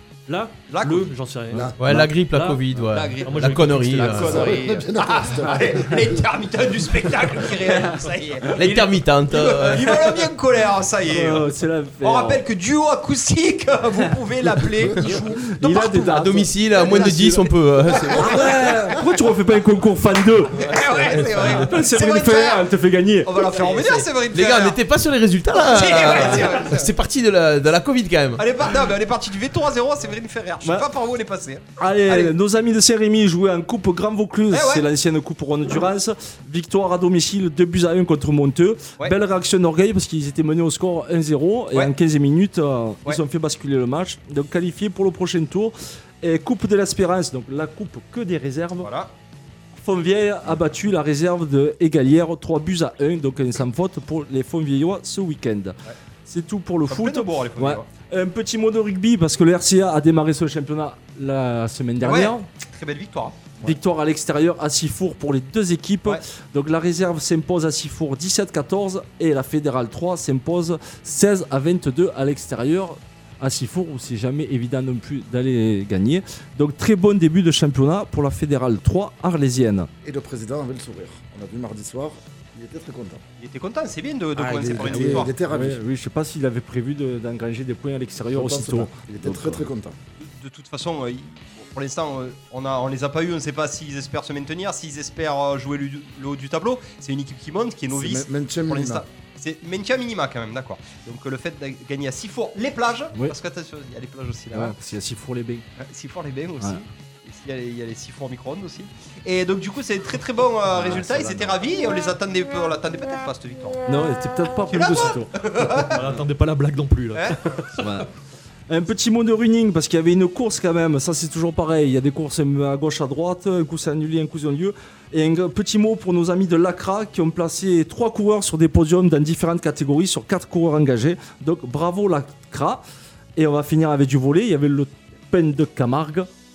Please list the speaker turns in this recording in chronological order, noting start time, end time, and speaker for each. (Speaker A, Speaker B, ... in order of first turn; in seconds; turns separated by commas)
Speaker A: 0.3-2.6, Speaker B: 0.7-1.1, Speaker C: 1.5-1.8, Speaker D: 1.8-4.5, Speaker B: 2.8-11.5, Speaker A: 3.2-4.5, Speaker C: 4.1-6.0, Speaker D: 8.5-10.2, Speaker E: 11.1-12.4, Speaker B: 12.0-17.5, Speaker E: 15.1-17.4, Speaker D: 16.1-18.4, Speaker B: 18.1-18.7, Speaker E: 18.1-23.5, Speaker B: 20.6-22.7, Speaker B: 23.2-24.8, Speaker D: 23.5-28.4, Speaker B: 25.5-26.9, Speaker B: 28.4-32.3, Speaker E: 31.8-48.9, Speaker B: 34.5-34.9, Speaker B: 48.8-49.1, Speaker E: 49.8-62.5, Speaker B: 56.9-57.9, Speaker B: 62.0-63.7, Speaker E: 63.6-79.9, Speaker C: 80.0-83.2, Speaker B: 83.4-85.3, Speaker E: 84.3-89.6, Speaker C: 84.4-85.8, Speaker C: 88.3-90.0, Speaker B: 90.2-104.7, Speaker C: 97.9-99.0, Speaker E: 104.5-105.6, Speaker B: 105.8-113.8, Speaker E: 110.7-111.6, Speaker E: 113.9-116.1, Speaker B: 114.7-116.0, Speaker A: 115.9-117.3, Speaker E: 117.8-118.1, Speaker E: 118.7-132.8, Speaker E: 133.3-136.3